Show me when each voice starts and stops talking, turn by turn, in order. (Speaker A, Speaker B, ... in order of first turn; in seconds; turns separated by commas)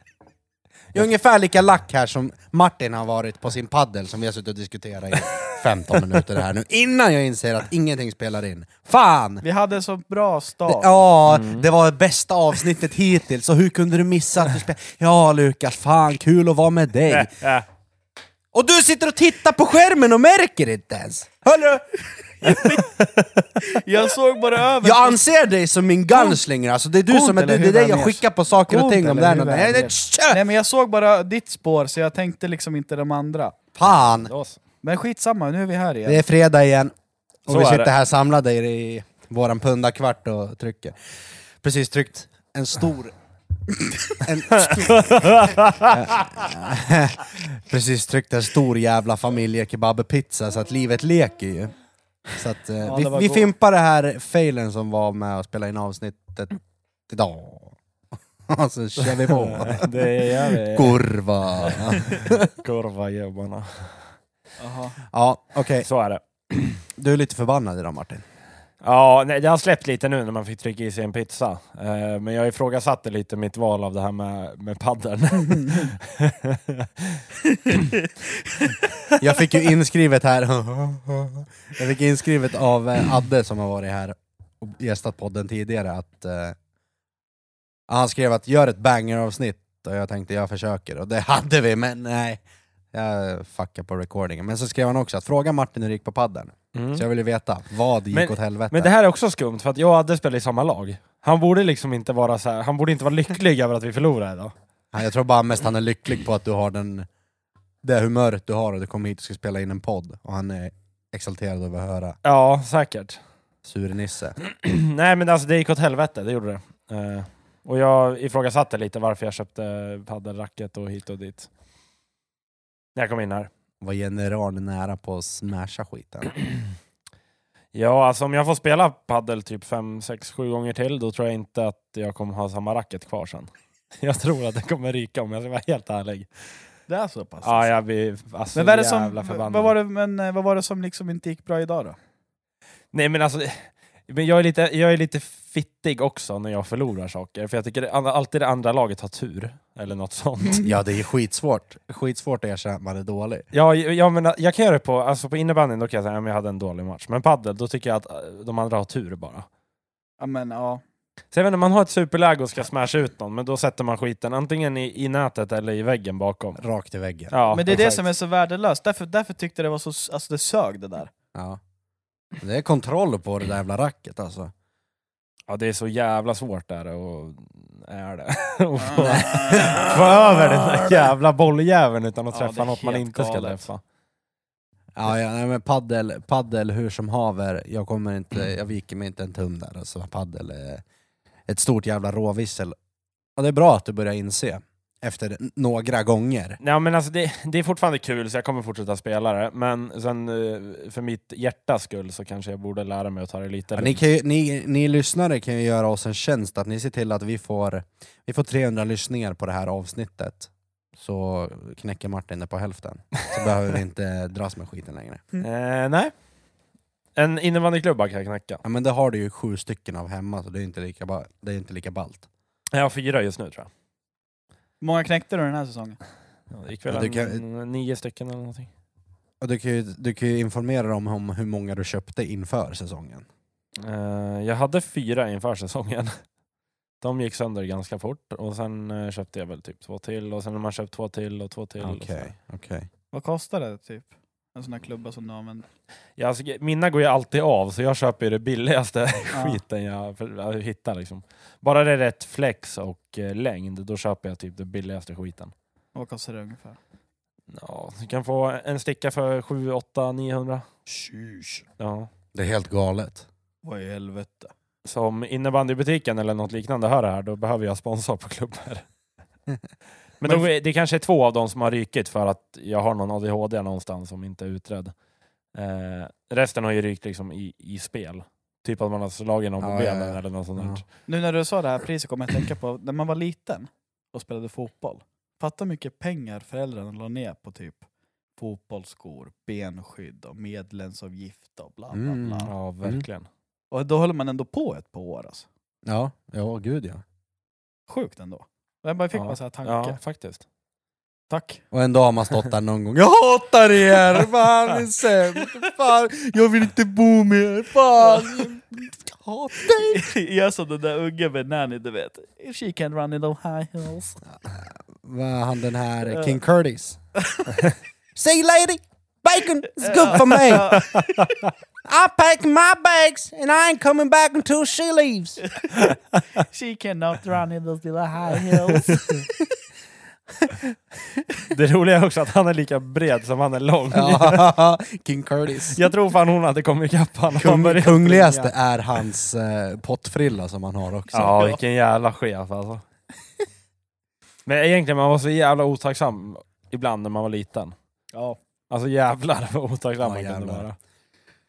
Speaker A: 0.9-9.4, Speaker B: 9.4-10.9, Speaker A: 10.7-17.3, Speaker C: 11.3-11.7, Speaker C: 17.1-17.6, Speaker A: 18.5-21.9, Speaker B: 22.4-22.8, Speaker A: 22.4-22.8, Speaker B: 23.6-25.2, Speaker A: 24.8-30.5, Speaker B: 26.1-26.4, Speaker B: 27.1-33.5, Speaker A: 33.8-34.3, Speaker C: 33.8-34.6, Speaker B: 34.8-36.2, Speaker A: 36.0-36.9, Speaker A: 37.5-41.0, Speaker C: 37.5-37.9, Speaker A: 41.6-43.1, Speaker A: 44.1-51.7, Speaker C: 44.5-46.2, Speaker A: 52.3-57.8, Speaker B: 52.8-53.5, Speaker A: 58.5-62.5, Speaker C: 59.0-61.0, Speaker C: 61.7-64.1, Speaker B: 64.6-65.0, Speaker A: 65.1-65.9, Speaker C: 65.8-66.8, Speaker A: 67.0-68.2, Speaker C: 68.8-77.7, Speaker A: 79.2-86.5, Speaker A: 87.9-92.4, Speaker A: 92.9-98.9, Speaker C: 96.7-97.0, Speaker C: 98.1-104.5, Speaker A: 104.9-107.1, Speaker A: 107.8-112.2, Speaker C: 112.2-113.2, Speaker A: 113.7-114.4, Speaker C: 114.4-121.5, Speaker C: 123.0-123.5, Speaker A: 123.8-126.3, Speaker C: 127.7-136.3, Speaker B: 136.9-137.7, Speaker C: 137.4-139.7, Speaker B: 138.5-142.0, Speaker C: 142.9-150.6, Speaker A: 150.6-153.5, Speaker C: 153.5-159.5, Speaker B: 160.2-160.8, Speaker C: 161.3-166.6, Speaker A: 166.6-167.9, Speaker C: 167.3-168.0, Speaker B: 167.5-171.1, Speaker A: 171.3-171.6, Speaker A: 172.4-174.5, Speaker C: 175.5-183.8, Speaker B: 178.8-179.9, Speaker A: 179.1-181.1, Speaker B: 182.3-183.6, Speaker A: 184.9-190.8, Speaker A: 191.5-192.8, Speaker A: 193.4-196.6, Speaker C: 196.6-204.0, Speaker A: 203.7-215.2, Speaker C: 215.4-216.1, Speaker C: 217.2-218.6, Speaker A: 218.6-222.3, Speaker C: 222.7-223.7, Speaker B: 224.8-226.0, Speaker C: 226.5-228.7, Speaker A: 226.9-227.4, Speaker A: 229.4-233.3, Speaker C: 233.8-236.1, Speaker C: 237.0-242.3, Speaker A: 241.8-242.9, Speaker B: 243.1-245.7, Speaker C: 246.2-255.5, Speaker B: 249.3-249.6, Speaker B: 255.9-256.8, Speaker C: 257.5-260.6, Speaker B: 260.9-261.6, Speaker C: 261.8-262.1, Speaker A: 262.3-263.3, Speaker B: 263.6-264.5, Speaker C: 264.8-268.8, Speaker C: 270.2-274.9, Speaker C: 275.5-280.9, Speaker A: 279.6-280.8, Speaker B: 281.1-287.8, Speaker B: 288.4-292.5, Speaker A: 291.9-293.0, Speaker C: 292.5-293.3, Speaker B: 293.7-295.5, Speaker A: 295.8-297.0, Speaker B: 297.9-300.0, Speaker C: 299.1-300.4, Speaker B: 301.3-301.6, Speaker A: 301.7-310.1, Speaker B: 309.7-314.2, Speaker A: 314.3-317.0, Speaker B: 316.1-316.3, Speaker A: 318.1-320.8, Speaker B: 319.8-321.1, Speaker A: 321.8-325.4, Speaker B: 325.4-329.2, Speaker C: 331.5-334.5, Speaker A: 333.9-335.8, Speaker C: 335.7-338.5, Speaker A: 337.3-341.4, Speaker C: 341.1-342.8, Speaker B: 341.2-341.6, Speaker C: 344.4-347.7, Speaker B: 348.1-348.4, Speaker C: 348.7-350.8, Speaker A: 350.0-350.7